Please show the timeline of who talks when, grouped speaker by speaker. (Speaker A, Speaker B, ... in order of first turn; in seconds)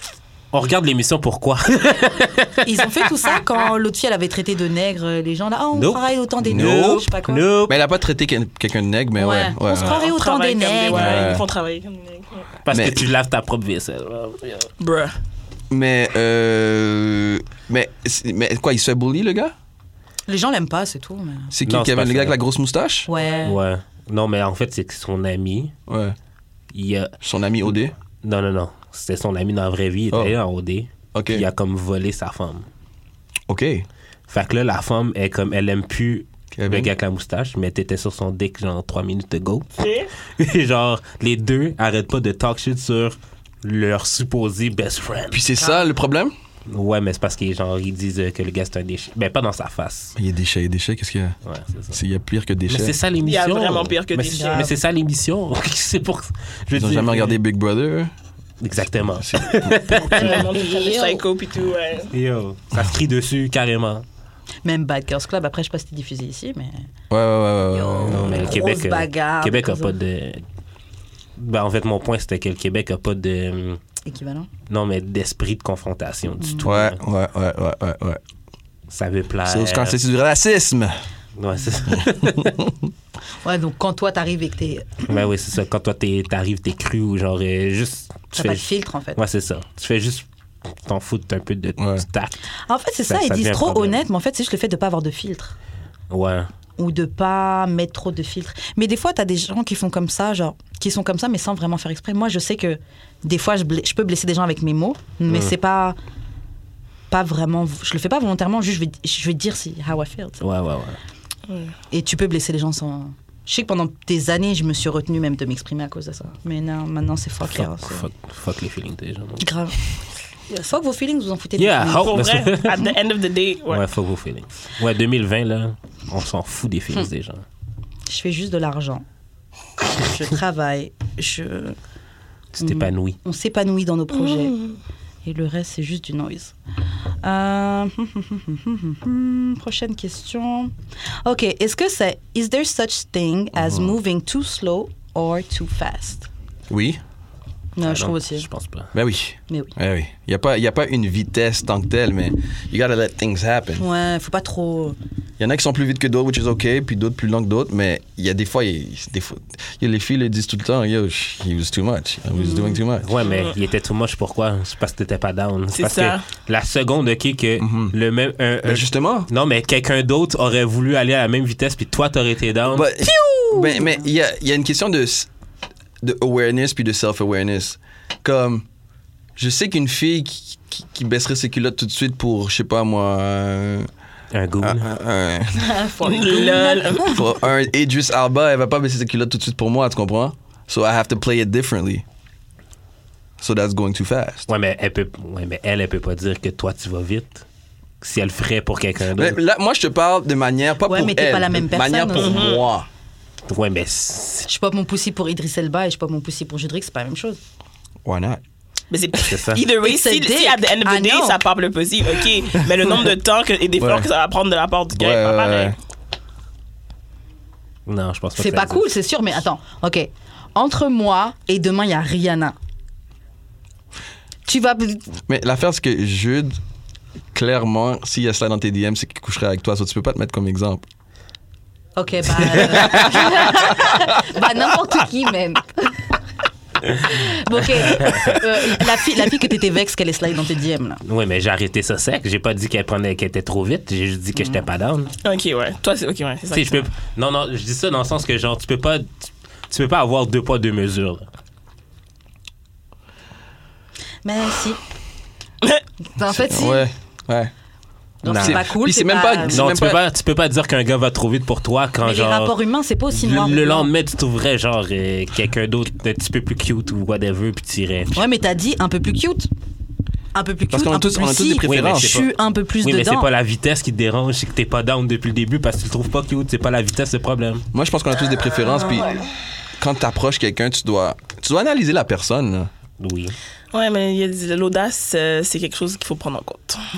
Speaker A: 0.5-3.5, 5.7-7.8, 10.9-11.3, 12.7-14.7, 21.6-22.4, 23.4-25.7, 26.7-27.1, 28.2-32.7, 34.3-45.5, 46.7-50.1, 51.5-52.0, 52.7-57.4, 58.6-60.7, 62.1-64.0, 68.1-70.4, 71.4-73.8, 74.7-77.0, 78.9-80.0, 81.4-82.6, 85.1-92.4, 93.1-94.0, 96.1-96.5, 110.4-111.0, 117.5-119.5, 121.6-122.9, 123.7-127.5, 132.6-133.2, 147.8-148.9, 163.0-172.9, 184.3-184.9, 194.5-197.4, 198.0-199.4, 203.5-204.5, 209.2-209.6, 217.9-218.9, 232.8-233.1, 238.0-238.4, 241.0-245.1, 246.5-251.3, 258.3-258.6, 259.5-262.5, 263.1-268.2, 271.6-277.7, 283.0-283.4
Speaker B: 2.6-7.4, 9.2-11.2, 20.3-21.5, 23.1-23.6, 45.6-45.9, 54.4-54.7, 59.9-61.2, 64.7-66.9, 67.7-70.0, 74.1-74.5, 76.4-76.7, 83.4-85.1, 88.3-89.2, 92.7-95.6, 96.8-106.0, 107.1-110.4, 111.9-118.1, 119.4-119.8, 120.5-122.2, 128.1-129.0, 129.9-131.8, 132.6-134.6, 135.2-136.6, 137.2-140.7, 141.2-146.3, 147.8-148.5, 153.8-155.0, 162.3-162.8, 173.0-174.1, 185.6-187.2, 200.9-202.5, 204.5-207.4, 209.8-211.4, 218.4-222.6, 224.5-225.2, 232.0-236.1, 237.0-241.0, 244.4-244.6, 254.2-254.8, 256.0-256.9, 258.2-259.6, 262.0-263.9, 268.1-269.5, 270.3-273.3
Speaker C: 6.5-7.1, 7.7-10.1, 10.9-11.5, 12.7-13.1, 15.7-19.5, 21.5-23.1, 25.9-26.1, 27.2-27.9, 30.1-30.4, 31.1-31.5, 33.5-33.9, 36.5-36.9, 45.3-46.3, 50.2-51.4, 51.9-53.0, 56.7-58.1, 59.2-59.9, 67.1-68.6, 76.7-78.2, 79.5-80.9, 82.4-82.7, 91.8-92.0, 143.6-143.9, 146.7-147.0, 148.9-153.8, 155.4-163.1, 167.6-167.9, 168.6-169.3, 172.7-175.3, 176.0-178.7, 179.4-183.9, 184.6-185.8, 187.0-192.0, 193.4-194.5, 199.2-202.9, 208.1-208.4, 213.8-214.1, 214.9-215.8, 225.3-226.6, 227.3-230.8, 232.8-234.0, 256.3-257.5, 258.3-260.0, 270.7-272.3, 277.7-279.2, 279.8-282.7
Speaker D: 9.7-12.5, 14.8-15.2, 39.8-40.1, 53.2-54.7, 60.1-62.1, 122.0-123.8, 134.3-134.7, 163.2-163.6, 165.7-166.2, 186.0-187.2, 202.2-202.7, 208.9-215.8, 245.2-246.9, 278.9-279.2, 283.7-286.9